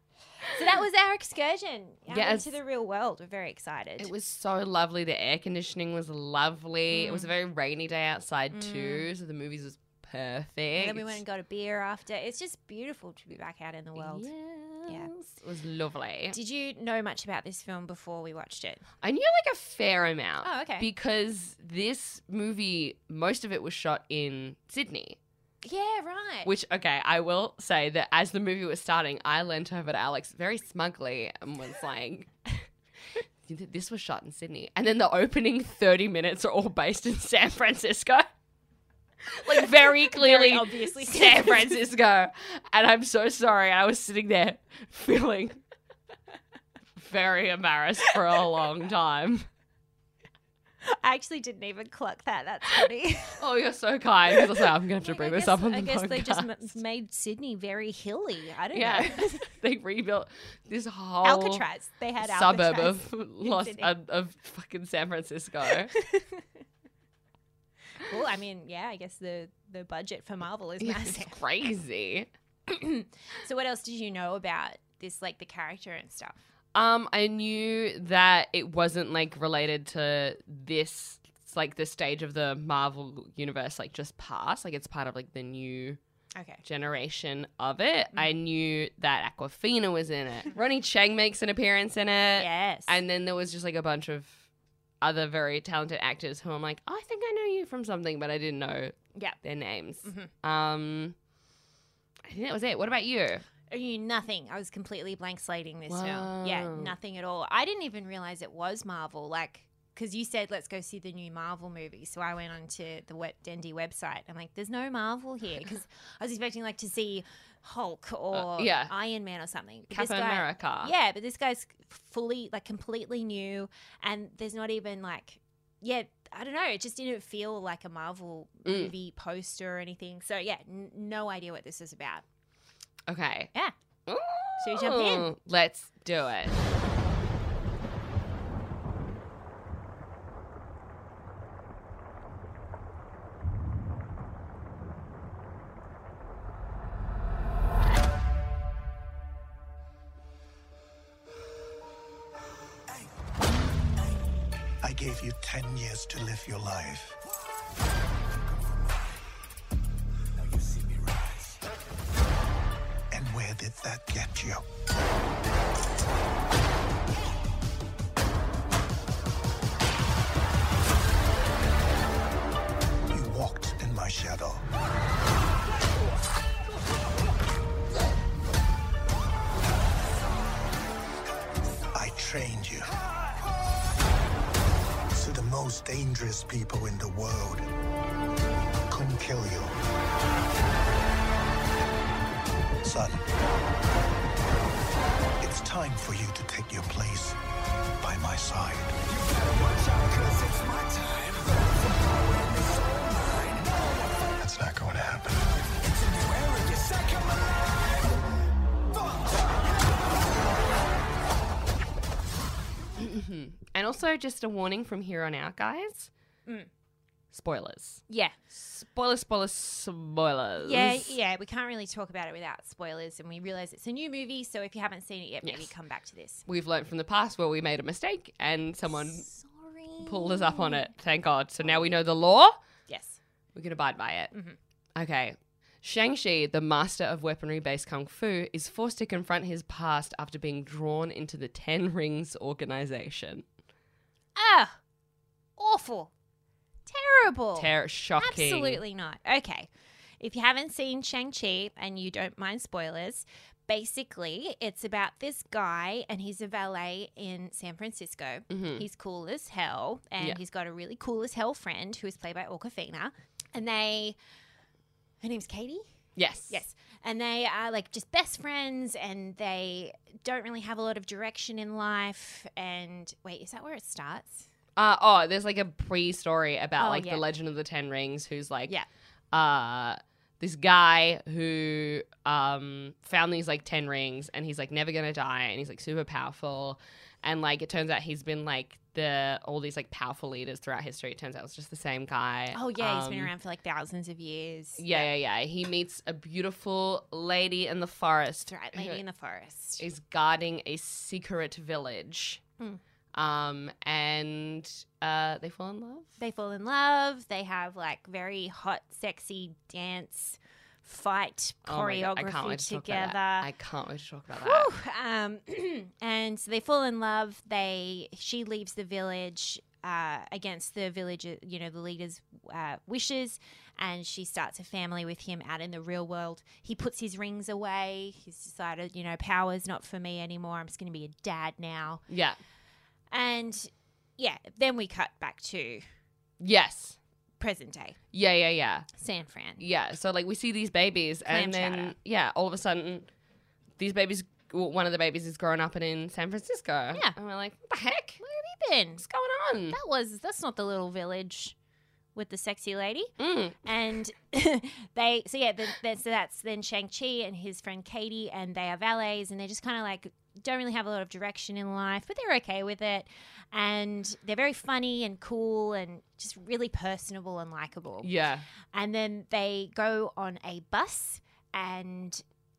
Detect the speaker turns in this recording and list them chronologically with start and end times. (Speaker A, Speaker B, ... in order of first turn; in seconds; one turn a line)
Speaker A: 0.5-4.1
Speaker B: 2.1-2.5
Speaker B: 4.0-11.2
Speaker A: 6.9-7.3
Speaker A: 8.5-9.1
Speaker A: 10.8-14.3
Speaker B: 14.0-16.4
Speaker A: 16.3-18.8
Speaker B: 19.0-25.2
Speaker A: 20.4-20.9
Speaker A: 25.6-26.5
Speaker B: 26.4-32.7
Speaker B: 33.5-38.3
Speaker B: 39.3-45.6
Speaker A: 39.6-41.9
Speaker B: 47.0-49.5
Speaker A: 50.9-53.4
Speaker B: 53.4-56.5
Speaker A: 54.3-59.5
Speaker B: 58.7-61.6
Speaker A: 61.2-63.9
Speaker B: 62.2-66.0
Speaker A: 65.9-66.4
Speaker A: 68.0-71.4
Speaker B: 70.8-72.3
Speaker A: 72.7-76.4
Speaker B: 76.8-86.0
Speaker A: 86.4-86.6
Speaker B: 86.6-94.4
Speaker A: 92.4-93.0
Speaker B: 95.0-101.2
Speaker A: 100.0-100.3
Speaker B: 102.3-103.4
Speaker A: 103.7-132.2
Speaker B: 105.9-106.9
Speaker B: 118.3-118.9
Speaker B: 119.9-120.9
Speaker B: 128.7-128.9
Speaker B: 133.1-133.5
Speaker B: 134.1-136.6
Speaker A: 134.6-135.3
Speaker C: 154.8-157.2
Speaker C: 163.1-164.6
Speaker C: 173.1-174.7
Speaker C: 181.9-183.0
Speaker C: 185.1-187.7
Speaker C: 188.9-189.8
Speaker C: 192.8-193.2
Speaker C: 195.4-197.4
Speaker C: 198.0-199.0
Speaker C: 204.4-205.5
Speaker B: 213.0-216.1
Speaker B: 217.3-221.2
Speaker A: 218.1-218.4
Speaker A: 220.6-226.4
Speaker B: 225.4-225.7
Speaker B: 226.5-229.3
Speaker A: 228.9-230.9
Speaker B: 230.0-232.6
Speaker A: 232.9-233.2
Speaker B: 233.6-234.3
Speaker B: 235.0-243.4
Speaker A: 244.4-244.8
Speaker A: 245.6-246.1
Speaker A: 246.9-249.7
Speaker B: 247.6-248.8
Speaker A: 250.2-264.2
Speaker B: 258.5-258.9
Speaker A: 265.2-265.8
Speaker B: 266.2-266.6
Speaker A: 266.5-274.5
Speaker B: 274.8-278.8
Speaker A: 276.8-277.2
Speaker B: 279.3-293.3
Speaker A: 292.5-295.1
Speaker B: 294.8-299.0
Speaker A: 298.5-299.8
Speaker B: 299.8-302.4
Speaker B: 303.1-306.1
Speaker A: 306.2-313.5
Speaker B: 311.7-314.7
Speaker A: 314.3-332.0
Speaker B: 332.1-332.4
Speaker A: 333.1-335.8
Speaker B: 336.4-337.0
Speaker A: 337.4-338.0
Speaker B: 338.1-338.9
Speaker A: 339.0-339.6
Speaker B: 339.6-343.1
Speaker A: 341.3-341.9
Speaker B: 343.8-348.2
Speaker A: 348.2-349.1
Speaker B: 349.0-349.8
Speaker A: 349.7-351.6
Speaker A: 352.1-353.1
Speaker B: 353.2-353.6
Speaker A: 353.6-368.1
Speaker B: 368.0-368.4
Speaker A: 368.7-372.2